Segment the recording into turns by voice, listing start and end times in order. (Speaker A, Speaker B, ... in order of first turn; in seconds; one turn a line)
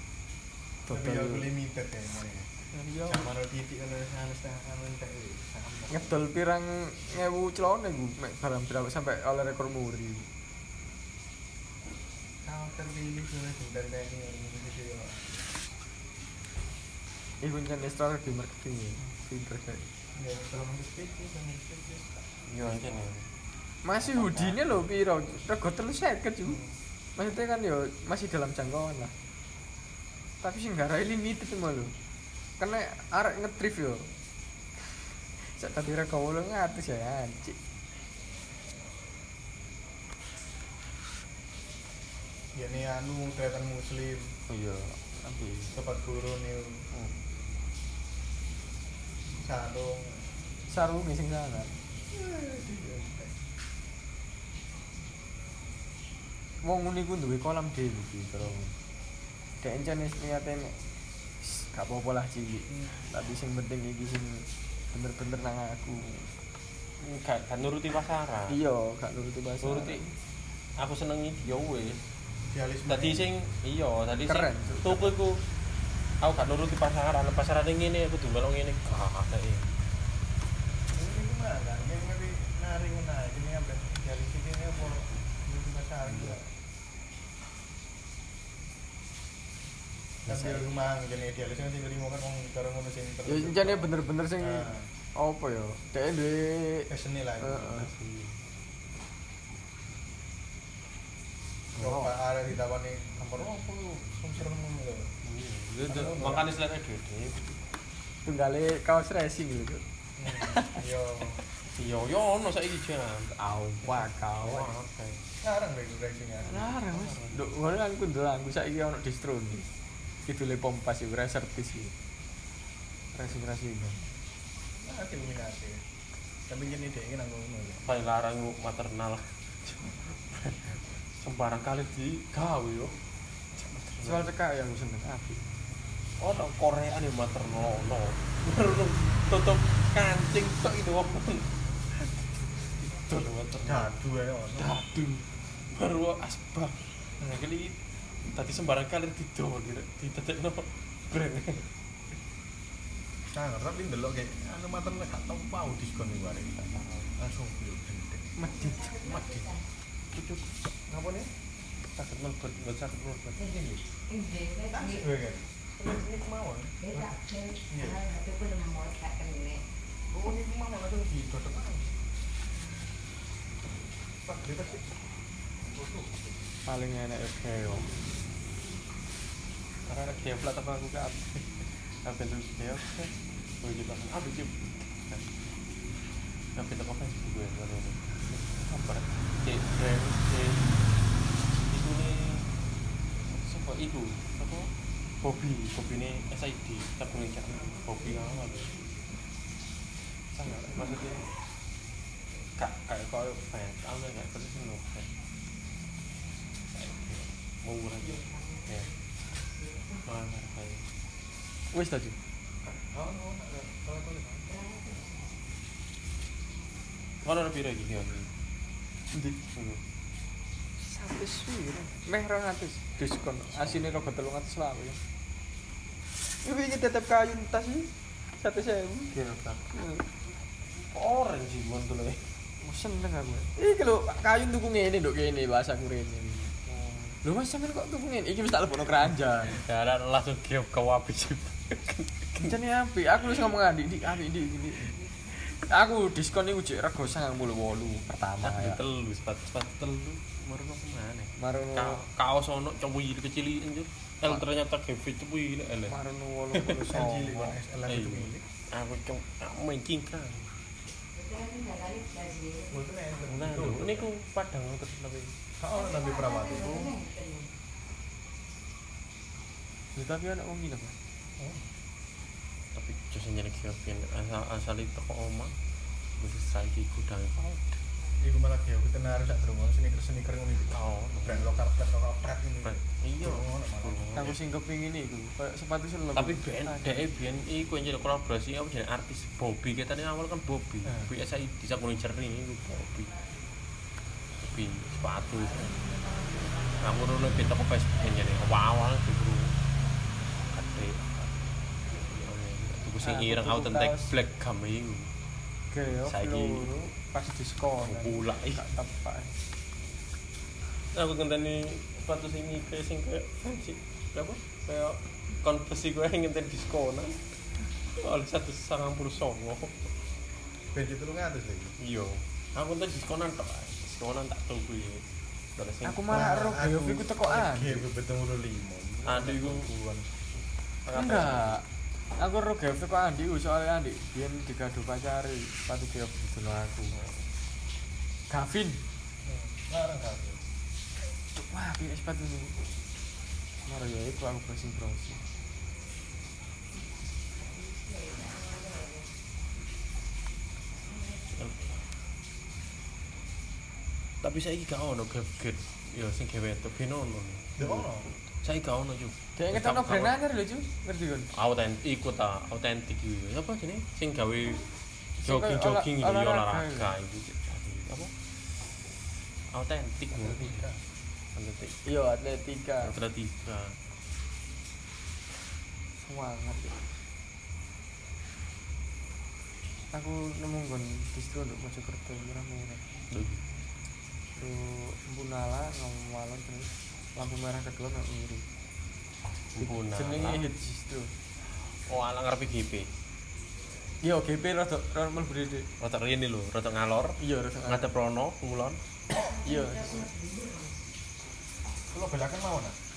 Speaker A: 0.9-1.5
Speaker B: 0.9-2.5
Speaker A: 2.7-3.3
Speaker B: 3.1-6.3
Speaker A: 5.9-10.3
Speaker B: 12.4-15.6
Speaker A: 17.4-19.9
Speaker B: 20.2-22.3
Speaker C: 22.5-23.3
Speaker A: 23.8-26.6
Speaker C: 24.0-24.8
Speaker B: 26.5-26.7
Speaker A: 27.2-29.1
Speaker A: 30.4-31.9
Speaker A: 32.6-34.1
Speaker A: 35.4-37.6
Speaker B: 42.5-44.3
Speaker A: 44.5-45.8
Speaker B: 45.7-46.9
Speaker B: 49.4-50.3
Speaker A: 50.7-51.7
Speaker B: 52.1-53.3
Speaker A: 56.6-58.7
Speaker A: 59.6-60.8
Speaker A: 61.4-66.3
Speaker C: 67.0-68.6
Speaker A: 68.5-70.1
Speaker C: 69.6-70.0
Speaker C: 70.8-72.0
Speaker B: 72.5-73.3
Speaker C: 72.9-75.4
Speaker A: 74.2-75.1
Speaker C: 76.2-79.7
Speaker B: 80.9-86.5
Speaker B: 90.3-94.9
Speaker C: 90.3-90.6
Speaker A: 93.3-96.9
Speaker B: 96.9-97.9
Speaker A: 97.4-97.9
Speaker C: 98.0-98.4
Speaker B: 101.8-105.1
Speaker A: 101.8-102.1
Speaker C: 105.2-107.6
Speaker B: 105.9-106.5
Speaker A: 108.3-109.8
Speaker B: 110.2-111.4
Speaker A: 110.4-110.8
Speaker C: 111.7-115.2
Speaker A: 113.8-114.8
Speaker B: 115.4-116.6
Speaker A: 116.5-119.7
Speaker C: 116.8-117.5
Speaker A: 120.3-121.9
Speaker A: 123.2-124.0
Speaker B: 124.8-125.8
Speaker B: 126.5-127.8
Speaker C: 127.8-132.9
Speaker C: 133.6-134.2
Speaker A: 134.0-135.4
Speaker C: 136.2-142.1
Speaker C: 142.8-144.0
Speaker B: 143.6-144.7
Speaker C: 144.5-151.7
Speaker B: 153.3-158.3
Speaker C: 156.6-157.1
Speaker A: 158.4-159.0
Speaker B: 158.9-159.6
Speaker B: 160.9-161.3
Speaker C: 161.9-163.5
Speaker B: 163.5-163.8
Speaker B: 164.6-168.3
Speaker B: 170.1-172.0
Speaker B: 174.2-174.9
Speaker B: 175.6-176.4
Speaker A: 176.7-177.9
Speaker C: 179.9-185.2
Speaker C: 186.6-190.8
Speaker C: 191.5-192.5
Speaker C: 193.3-194.7
Speaker C: 195.2-198.9
Speaker C: 200.3-201.3
Speaker C: 202.6-205.1
Speaker C: 206.7-208.9
Speaker C: 210.0-210.8
Speaker A: 211.7-212.2
Speaker B: 212.7-214.7
Speaker C: 217.2-218.3
Speaker C: 219.5-219.8
Speaker A: 220.8-225.0
Speaker C: 223.5-224.0
Speaker A: 226.4-227.9
Speaker A: 228.4-229.1
Speaker C: 229.1-229.6
Speaker A: 229.7-230.0
Speaker C: 230.9-232.2
Speaker A: 232.6-236.5
Speaker C: 236.7-237.2
Speaker A: 237.2-239.6
Speaker C: 239.5-242.6
Speaker A: 242.4-248.8
Speaker C: 248.4-256.0
Speaker A: 251.4-252.0
Speaker A: 255.9-257.6
Speaker B: 256.8-258.4
Speaker C: 257.9-260.5
Speaker B: 262.7-264.1
Speaker C: 263.3-265.3
Speaker B: 265.6-267.0
Speaker A: 269.9-270.9
Speaker B: 271.4-271.6
Speaker C: 272.8-275.5
Speaker C: 276.2-277.8
Speaker B: 278.2-284.3
Speaker C: 280.7-281.6
Speaker C: 282.6-284.4
Speaker A: 284.1-287.1
Speaker C: 286.2-293.1
Speaker C: 294.4-296.0
Speaker C: 296.7-299.6
Speaker C: 300.4-305.1
Speaker A: 303.0-304.1
Speaker A: 305.7-309.4
Speaker C: 306.1-306.7
Speaker C: 307.8-308.6
Speaker C: 310.9-317.2
Speaker C: 318.0-319.9
Speaker B: 320.7-321.8
Speaker C: 321.8-325.0
Speaker C: 325.6-326.1
Speaker A: 325.8-327.9
Speaker B: 326.1-330.1
Speaker C: 329.1-329.7
Speaker C: 330.9-331.6
Speaker A: 330.9-331.6
Speaker A: 332.2-336.9
Speaker A: 338.3-338.8
Speaker B: 339.3-340.4
Speaker A: 341.4-342.6
Speaker A: 343.7-345.2
Speaker C: 351.4-351.7
Speaker C: 354.2-357.9
Speaker B: 357.6-358.1
Speaker C: 358.4-360.2
Speaker A: 359.4-361.3
Speaker C: 361.3-364.7
Speaker A: 365.2-366.9
Speaker C: 365.2-368.1
Speaker C: 369.5-370.7
Speaker B: 370.1-370.8
Speaker C: 371.4-371.8
Speaker A: 371.9-372.9
Speaker C: 372.8-373.8
Speaker A: 376.0-376.8
Speaker A: 379.9-382.9
Speaker C: 383.1-383.4
Speaker A: 384.4-388.4
Speaker C: 389.5-390.4
Speaker A: 389.6-391.1
Speaker C: 391.9-392.9
Speaker A: 394.0-395.7
Speaker C: 395.8-398.8
Speaker A: 397.2-397.9
Speaker A: 399.3-400.1
Speaker B: 401.9-402.8